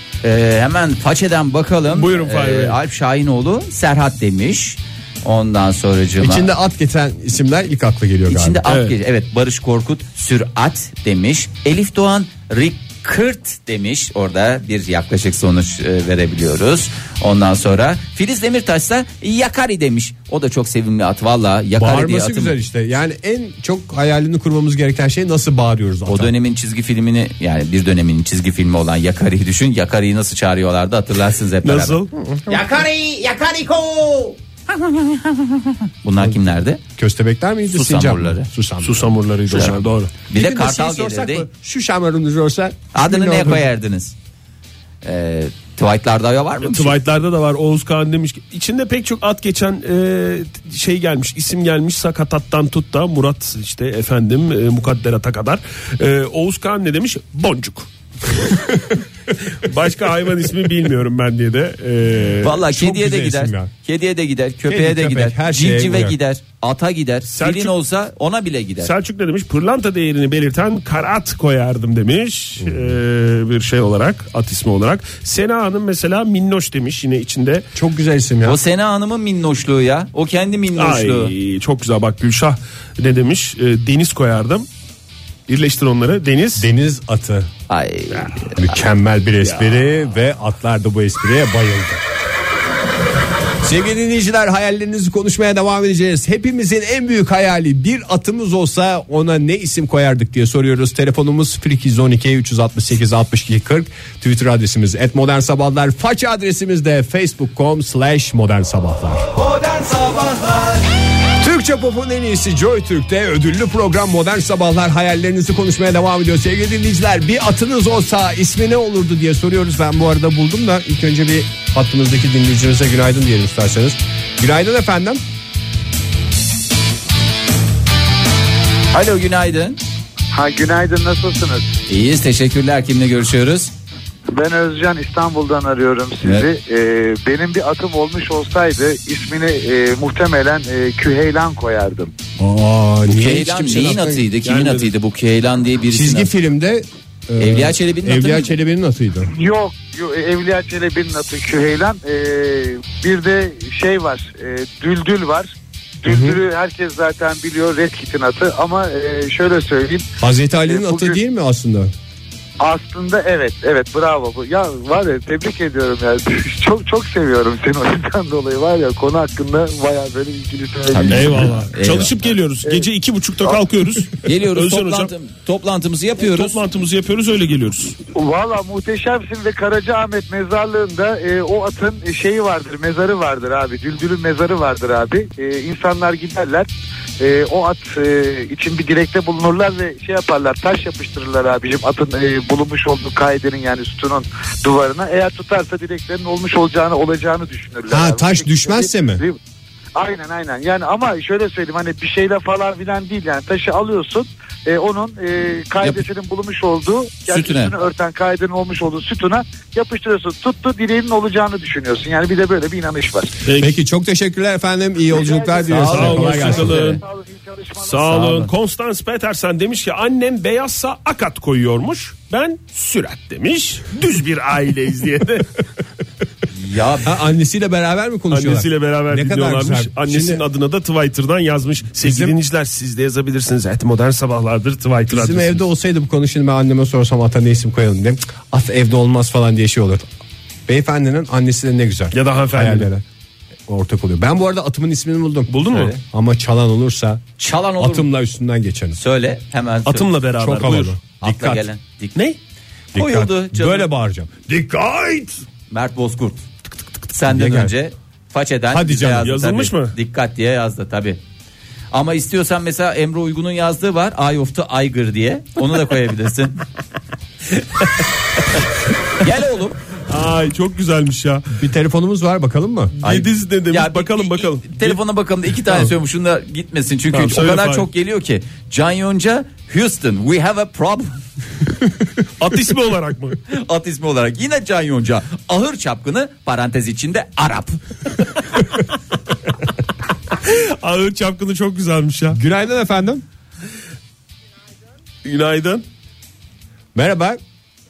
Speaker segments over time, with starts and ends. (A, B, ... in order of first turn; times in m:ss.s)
0:00.2-0:06.5 A
0:01.9-0:02.8 B
0:06.2-0:08.6 C
0:08.3-0:22.5 A
0:08.7-0:08.9 B
0:21.8-0:26.3 C
0:26.1-0:32.0 A
0:31.6-0:32.1 B
0:32.2-0:32.7 C
0:32.5-0:36.8 A
0:37.0-0:39.8 C
0:37.7-0:38.5 A
0:38.8-0:40.1 B
0:40.3-0:41.5 A
0:40.3-0:43.7 C
0:42.9-0:44.1 A
0:45.0-0:47.0 A
0:46.6-1:02.6 B
1:02.4-1:08.9 A
1:02.5-1:03.7 C
1:04.7-1:06.2 C
1:07.3-1:07.7 B
1:08.8-1:17.7 B
1:12.6-1:12.9 C
1:17.7-1:18.6 C
1:18.4-1:21.3 A
1:20.7-1:24.6 B
1:25.5-1:26.7 B
1:26.6-1:27.5 C
1:27.7-1:28.6 A
1:28.6-1:32.0 C
1:29.4-1:29.8 B
1:33.6-1:49.3 C
1:51.4-2:05.2 C
2:08.9-2:09.8 A
2:10.3-2:11.6 D
2:11.9-2:13.7 A
2:14.3-2:22.1 D
2:22.4-2:24.2 C
2:23.1-2:26.3 A
2:24.4-2:24.9 B
2:25.9-2:29.3 C
2:27.4-2:28.5 A
2:29.3-2:35.5 D
2:36.0-2:40.0 D
2:36.0-2:36.4 C
2:40.2-2:41.9 C
2:40.7-2:41.2 D
2:42.6-2:51.6 D
2:50.9-2:52.1 A
2:51.1-2:55.1 B
2:54.2-2:56.6 A
2:56.2-2:58.0 B
2:58.1-3:06.7 D
3:07.2-3:19.4 D
3:17.9-3:19.2 C
3:19.9-3:33.4 D
3:27.3-3:27.7 A
3:33.4-3:33.8 B
3:33.6-3:36.8 C
3:35.1-3:38.1 D
3:35.7-3:37.0 A
3:35.8-3:37.0 B
3:37.8-3:45.6 B
3:38.1-3:38.5 A
3:46.5-3:47.2 A
3:47.0-3:50.4 C
3:48.3-3:55.6 B
3:52.0-3:52.3 C
3:55.1-4:00.1 C
4:00.7-4:03.0 C
4:02.1-4:02.9 B
4:03.7-4:07.2 C
4:05.5-4:05.9 B
4:07.4-4:08.1 A
4:07.8-4:09.0 C
4:09.0-4:10.1 A
4:09.8-4:11.0 B
4:10.4-4:11.7 C
4:11.2-4:12.2 A
4:12.9-4:15.4 C
4:12.9-4:13.9 A
4:15.7-4:16.4 A
4:17.1-4:21.2 A
4:17.3-4:17.7 C
4:18.7-4:19.3 C
4:19.2-4:19.9 B
4:21.9-4:26.6 A
4:29.2-4:29.8 A
4:30.1-4:31.6 B
4:31.5-4:32.9 C
4:33.0-4:35.0 B
4:33.0-4:41.2 A
4:35.6-4:35.9 B
4:37.1-4:37.9 B
4:42.4-4:43.4 B
4:43.5-4:47.8 A
4:50.4-4:52.4 B
4:52.3-4:53.2 C
4:55.2-4:55.8 B
4:56.9-4:57.4 C